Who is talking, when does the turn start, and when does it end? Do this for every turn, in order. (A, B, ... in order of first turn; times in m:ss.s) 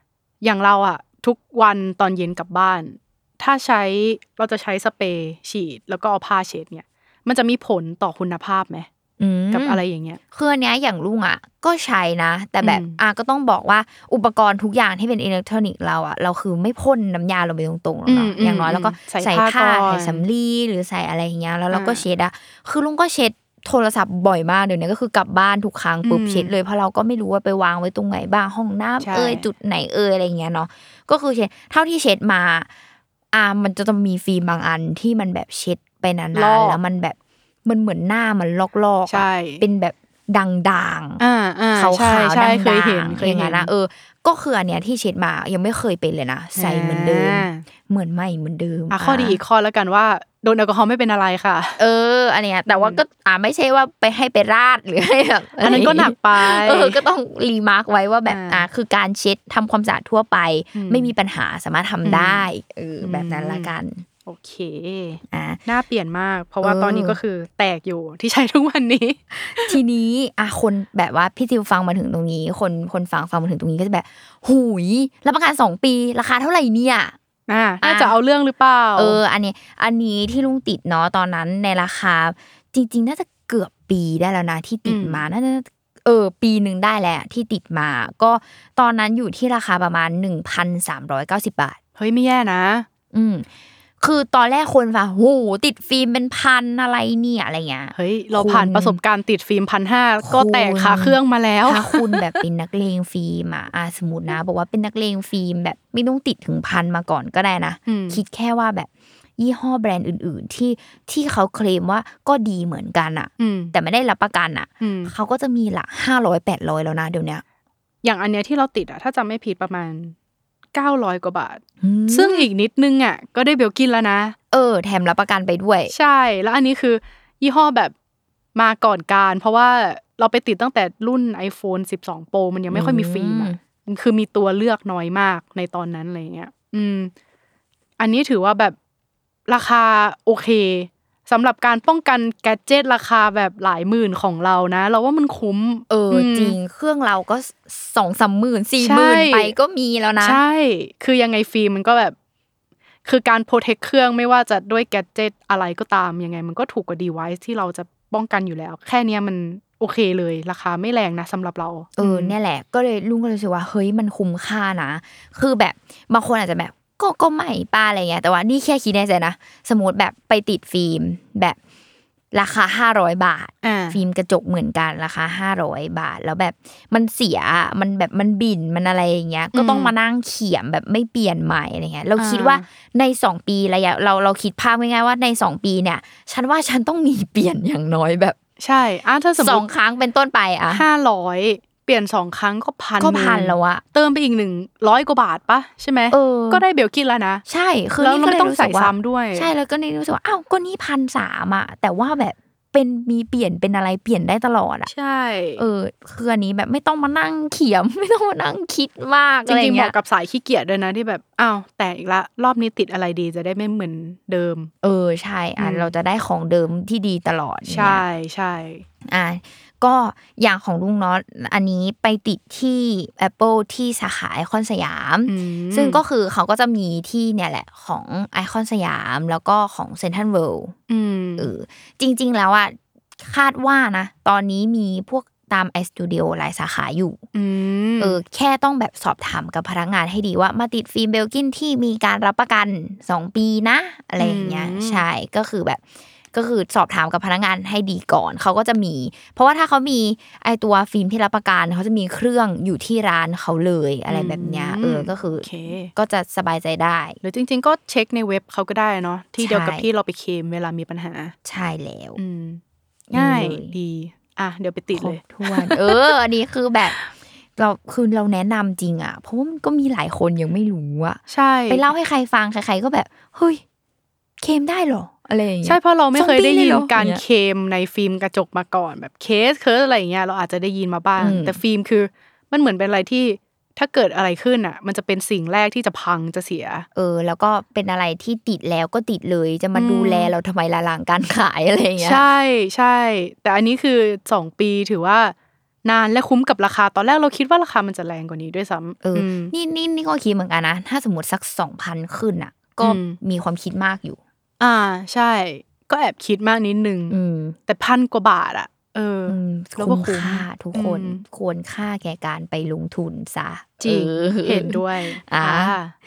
0:00.4-0:08.9 A
0:09.2-0:09.8 B
0:09.5-0:10.2 A
0:10.3-0:32.7 B
0:12.6-0:13.0 A
0:18.1-0:20.2 A
0:21.7-0:22.0 A
0:26.0-0:26.5 A
0:29.0-0:29.5 A
0:33.3-0:41.2 B
0:36.3-0:36.8 A
0:39.1-0:39.6 A
0:41.2-0:43.7 A
0:41.8-0:49.4 B
0:46.6-0:47.6 A
0:48.9-0:51.8 A
0:51.8-1:04.0 B
0:52.7-0:53.0 A
0:55.6-0:57.0 A
0:58.3-0:58.7 A
1:00.8-1:01.1 A
1:02.0-1:02.5 A
1:03.0-1:03.7 A
1:04.2-1:09.8 A
1:05.3-1:05.6 B
1:06.6-1:07.2 B
1:09.6-1:17.2 B
1:17.5-1:19.2 A
1:17.8-1:18.2 B
1:19.0-1:31.8 B
1:24.9-1:25.2 A
1:32.0-1:32.9 A
1:33.1-1:33.5 B
1:34.0-1:39.0 B
1:38.0-1:42.2 A
1:40.2-1:57.4 B
1:47.9-1:48.2 A
1:53.4-1:53.7 A
1:54.8-1:55.1 A
1:58.0-2:00.2 A
2:00.7-2:04.4 A
2:01.8-2:02.5 B
2:04.5-2:05.9 B
2:05.9-2:07.9 A
2:08.6-2:17.1 A
2:12.7-2:13.6 B
2:18.0-2:18.8 A
2:19.5-2:26.6 A
2:25.9-2:30.4 B
2:28.8-2:29.6 A
2:30.2-2:32.2 A
2:33.0-2:42.4 A
2:42.0-2:51.6 B
2:52.3-3:08.4 B
2:53.6-2:54.0 A
2:59.5-2:59.9 A
3:02.2-3:02.6 A
3:08.6-3:09.6 A
3:09.4-3:10.8 B
3:10.7-3:17.4 A
3:13.0-3:13.8 B
3:16.1-3:16.6 B
3:17.5-3:24.9 B
3:18.0-3:19.5 A
3:24.9-3:25.6 A
3:25.6-3:29.9 B
3:29.5-3:34.7 A
3:34.8-3:38.0 B
3:35.6-3:35.9 A
3:37.7-3:38.8 A
3:39.1-3:50.8 B
3:45.3-3:46.0 A
3:50.9-3:51.5 A
3:51.4-3:57.2 B
3:57.3-3:58.2 A
3:58.0-4:05.8 B
4:04.2-4:05.0 A
4:06.3-4:17.2 B
4:14.1-4:15.9 A
4:17.2-4:21.3 A
4:19.4-4:19.9 B
4:21.4-4:22.2 B
4:22.2-4:22.6 A
4:23.1-4:26.2 A
4:23.1-4:23.8 B
4:24.9-4:27.0 B
4:27.6-4:33.6 B
4:31.3-4:31.8 A
4:34.4-4:37.2 B
4:35.6-4:46.9 A
4:41.2-4:41.6 B
4:47.0-4:52.2 B
4:49.8-4:50.3 A
4:52.0-4:55.3 A
4:55.8-4:59.5 A
4:59.0-5:04.2 B
5:02.8-5:03.2 A
5:04.6-5:07.2 A
5:07.1-5:07.6 B
5:07.7-5:11.2 A
5:09.3-5:15.8 B
5:13.8-5:15.9 A